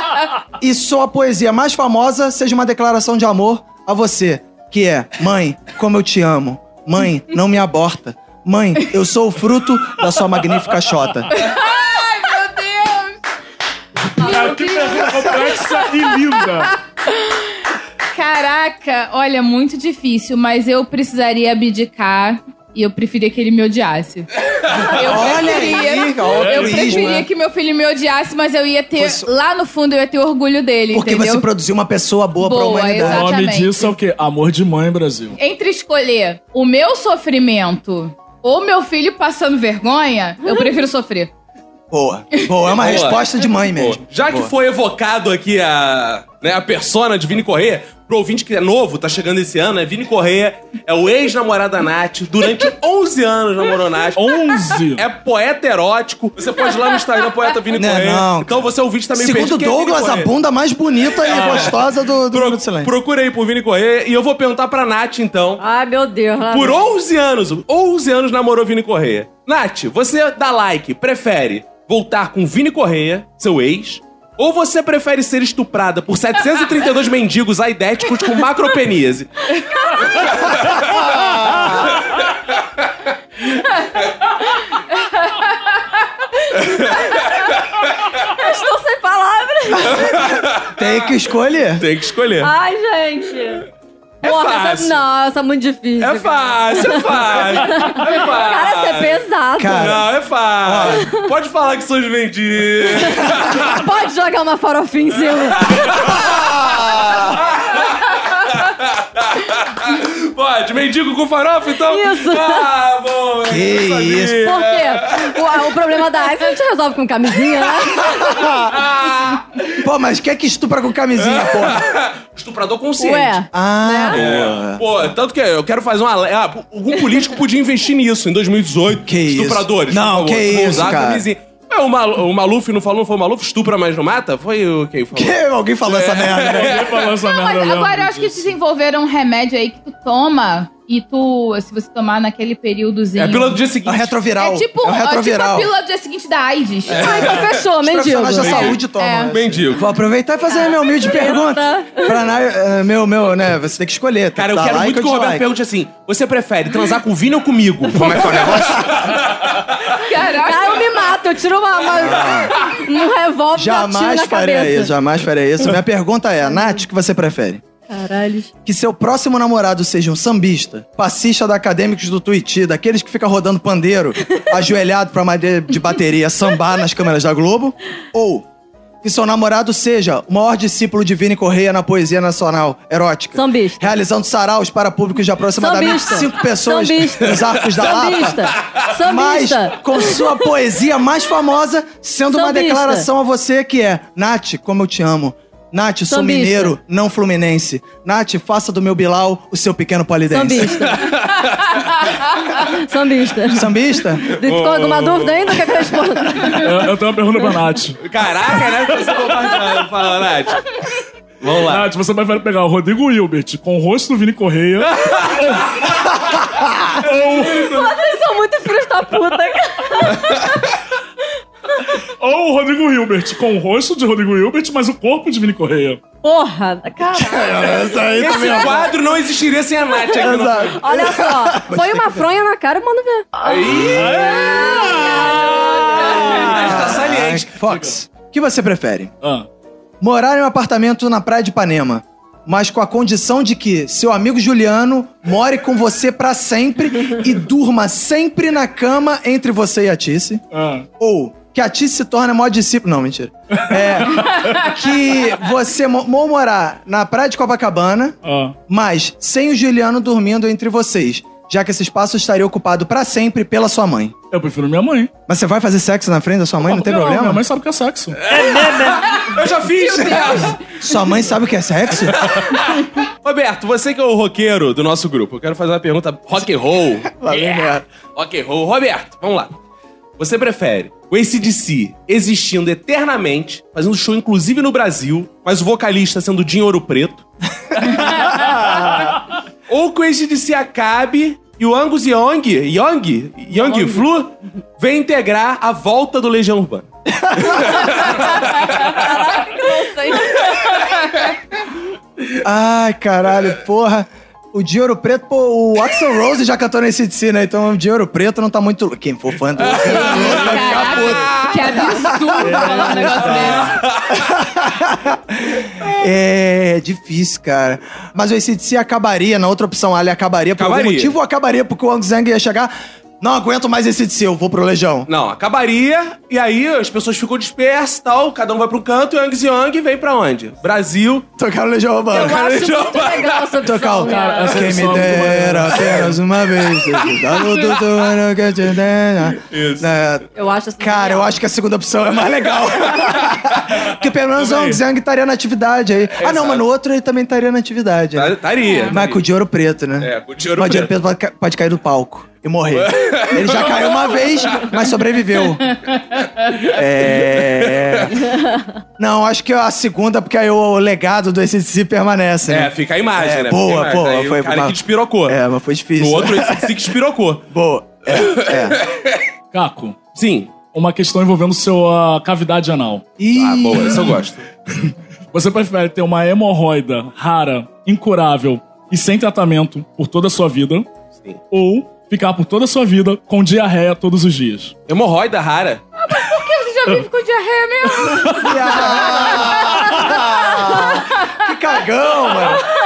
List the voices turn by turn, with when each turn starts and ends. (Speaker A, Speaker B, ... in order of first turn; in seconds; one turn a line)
Speaker A: 0.6-11.3
Speaker B: 11.3-13.2
Speaker C: 14.2-16.7
Speaker B: 14.2-17.5
Speaker B: 18.1-31.4
Speaker A: 25.0-27.3
Speaker C: 26.3-27.0
Speaker A: 28.9-29.3
Speaker A: 30.9-33.3
Speaker B: 32.4-33.9
Speaker C: 33.0-35.4
Speaker B: 35.4-41.3
Speaker A: 41.9-44.5
Speaker D: 42.8-60.3
Speaker C: 54.1-55.0
Speaker A: 57.7-62.9
Speaker D: 61.2-65.6
Speaker E: 65.6-66.9
Speaker D: 66.5-81.0
Speaker A: 80.8-81.9
Speaker D: 81.8-82.8
Speaker B: 85.3-85.7
Speaker D: 86.6-87.8
Speaker E: 88.3-90.1
Speaker D: 89.8-91.1
Speaker A: 89.9-91.8
Speaker D: 91.8-92.5
Speaker E: 92.4-93.7
Speaker D: 94.2-95.0
Speaker E: 94.2-99.8
Speaker D: 96.0-103.8
Speaker A: 99.6-100.1
Speaker A: 100.6-101.0
Speaker E: 100.9-101.2
Speaker E: 102.9-105.8
Speaker D: 105.3-115.5
Speaker A: 106.2-107.3
Speaker E: 111.9-112.7
Speaker A: 113.5-114.5
Speaker E: 114.4-118.1
Speaker D: 118.0-119.8
Speaker A: 118.0-118.8
Speaker A: 119.8-121.8
Speaker D: 121.2-123.4
Speaker E: 123.0-124.2
Speaker A: 123.5-124.9
Speaker D: 124.1-135.4
Speaker A: 129.0-131.2
Speaker A: 135.1-136.8
Speaker D: 135.9-137.1
Speaker C: 136.2-138.5
Speaker B: 137.2-143.6
Speaker D: 143.2-144.2
Speaker A: 143.8-145.7
Speaker B: 144.4-147.4
Speaker D: 146.9-147.7
Speaker A: 146.9-155.4
Speaker E: 147.0-148.8
Speaker D: 148.4-148.8
Speaker B: 148.4-149.3
Speaker D: 149.3-149.8
Speaker E: 150.9-152.2
Speaker D: 154.3-159.9
Speaker A: 157.9-159.1
Speaker B: 160.0-160.9
Speaker E: 160.4-164.9
Speaker A: 161.9-162.5
Speaker A: 163.5-167.6
Speaker E: 167.9-168.5
Speaker A: 168.6-178.4
Speaker A: 179.0-200.9
Speaker E: 183.3-183.9
Speaker E: 185.6-190.3
Speaker D: 188.5-188.8
Speaker E: 192.3-193.1
Speaker E: 196.1-196.8
Speaker E: 200.3-201.1
Speaker D: 200.8-201.8
Speaker E: 202.6-203.7
Speaker A: 203.5-204.2
Speaker E: 204.2-206.7
Speaker D: 204.3-205.9
Speaker C: 206.6-208.0
Speaker D: 208.0-210.7
Speaker C: 209.0-209.7
Speaker D: 211.4-211.9
Speaker C: 211.6-215.8
Speaker D: 214.9-215.9
Speaker C: 216.9-217.9
Speaker E: 217.1-220.7
Speaker C: 222.2-226.0
Speaker E: 226.2-228.9
Speaker A: 227.1-228.9
Speaker D: 228.1-230.8
Speaker A: 230.1-232.2
Speaker E: 230.7-233.3
Speaker D: 233.4-237.5
Speaker A: 233.7-234.1
Speaker C: 233.8-236.6
Speaker E: 234.2-236.2
Speaker A: 236.4-239.1
Speaker C: 237.7-237.9
Speaker A: 240.0-250.4
Speaker C: 250.5-250.8
Speaker A: 251.0-258.2
Speaker C: 253.7-254.5
Speaker C: 258.2-258.6
Speaker A: 258.7-264.1
Speaker C: 264.3-265.1
Speaker A: 265.3-267.4
Speaker C: 266.6-269.1
Speaker D: 268.2-270.7
Speaker B: 269.0-270.9
Speaker A: 270.7-272.2
Speaker D: 272.1-279.5
Speaker A: 277.1-277.8
Speaker D: 280.2-287.2
Speaker A: 287.9-288.8
Speaker D: 288.0-288.3
Speaker D: 289.7-296.9
Speaker E: 293.6-294.0
Speaker A: 297.1-297.9
Speaker D: 297.4-298.9
Speaker E: 298.7-300.7
Speaker A: 302.4-325.1
Speaker D: 309.6-311.8
Speaker B: 309.9-313.8
Speaker C: 312.4-313.7
Speaker D: 313.2-314.3
Speaker D: 320.6-321.1
Speaker D: 325.1-331.3
Speaker A: 331.4-332.5
Speaker E: 332.1-335.0
Speaker D: 332.1-333.6
Speaker A: 333.6-340.2
Speaker C: 334.1-336.1
Speaker D: 337.0-337.8
Speaker D: 339.4-339.9
Speaker E: 340.4-341.4
Speaker A: 340.8-348.4
Speaker D: 343.0-344.8
Speaker D: 346.1-346.6
Speaker D: 348.1-349.2
Speaker B: 348.6-348.9
Speaker A: 348.9-355.8
Speaker D: 350.0-350.9
Speaker D: 352.7-354.7
Speaker D: 356.4-358.2
Speaker A: 356.7-358.3
Speaker A: 359.0-366.8
Speaker D: 362.5-365.4
Speaker D: 366.0-367.4
Speaker A: 367.5-368.8
Speaker D: 368.1-369.2
Speaker C: 369.5-370.0
Speaker D: 370.1-370.6
Speaker C: 370.6-373.0
Speaker A: 373.2-374.1
Speaker D: 373.4-374.4
Speaker C: 375.3-380.9
Speaker C: 381.5-384.7
Speaker D: 384.9-385.8
Speaker B: 386.0-391.3
Speaker C: 388.0-388.4
Speaker A: 388.4-392.6